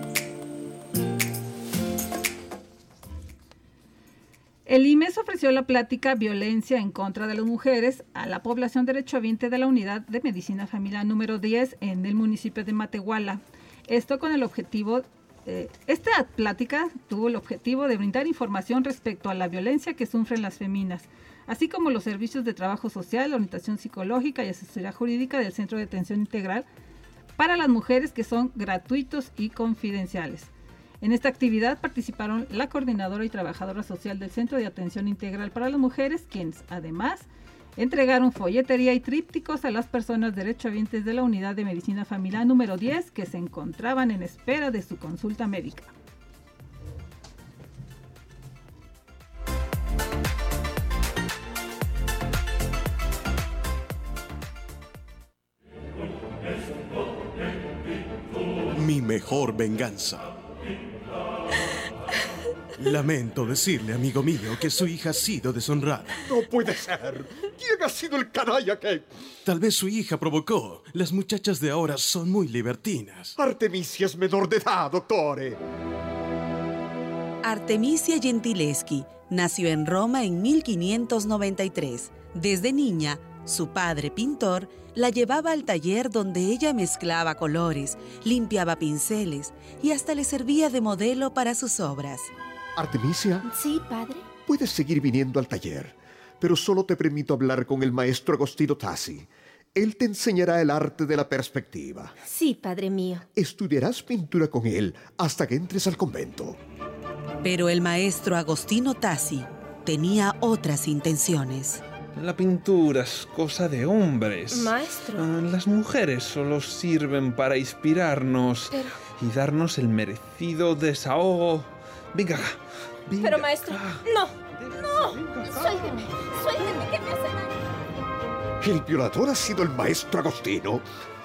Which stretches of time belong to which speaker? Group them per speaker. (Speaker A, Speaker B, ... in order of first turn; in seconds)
Speaker A: 4.7-26.7, 27.4-30.5, 31.0-45.9
Speaker B: 58.8-60.3, 62.8-66.2, 69.5-73.3
Speaker C: 66.3-69.0, 73.4-75.6, 92.8-93.4, 94.5-102.1, 103.3-106.6, 123.1-123.4, 128.6-130.8
Speaker D: 77.4-92.3, 107.4-111.8
Speaker E: 93.4-94.3, 102.2-103.2, 114.5-115.3, 123.2-127.6
Speaker F: 112.1-122.6, 123.6-124.0, 124.7-125.7